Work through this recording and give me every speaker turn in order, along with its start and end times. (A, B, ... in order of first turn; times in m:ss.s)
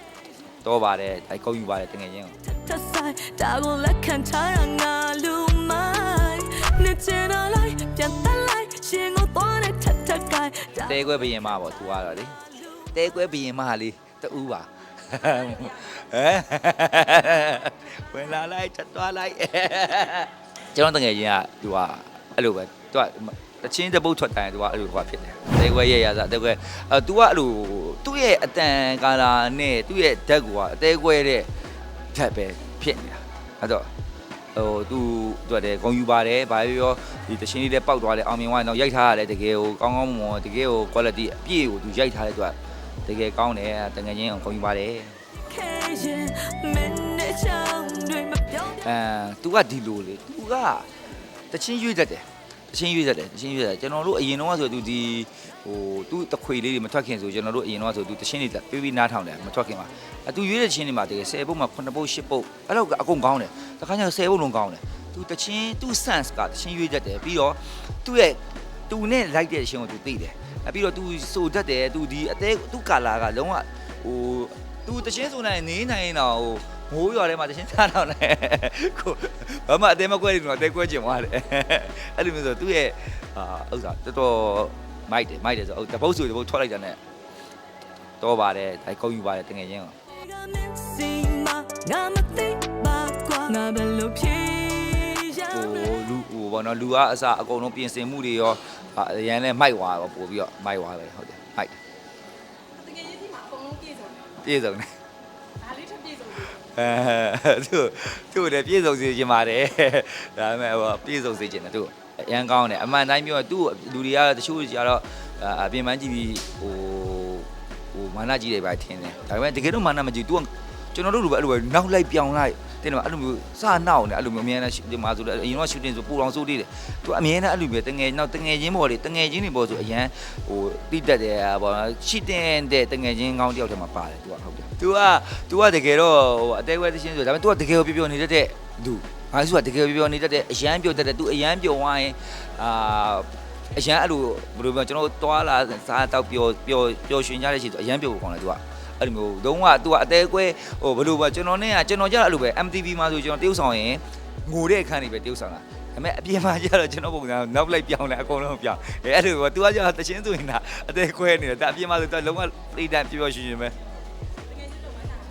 0:00.6-0:02.4 A
0:02.4-0:11.1 B
0:10.8-0:12.4 A
0:12.9-0:31.5 A
0:32.1-0:33.9 A
0:34.6-0:45.2 A
0:45.5-0:48.9 B
0:48.8-0:50.9 A
0:51.5-1:27.0 A
1:28.2-1:30.0 A
1:30.1-1:36.1 B
1:35.5-1:41.8 A
1:42.8-1:44.2 C
1:44.3-1:44.9 A
1:45.6-1:46.3 C
1:46.3-2:43.8 A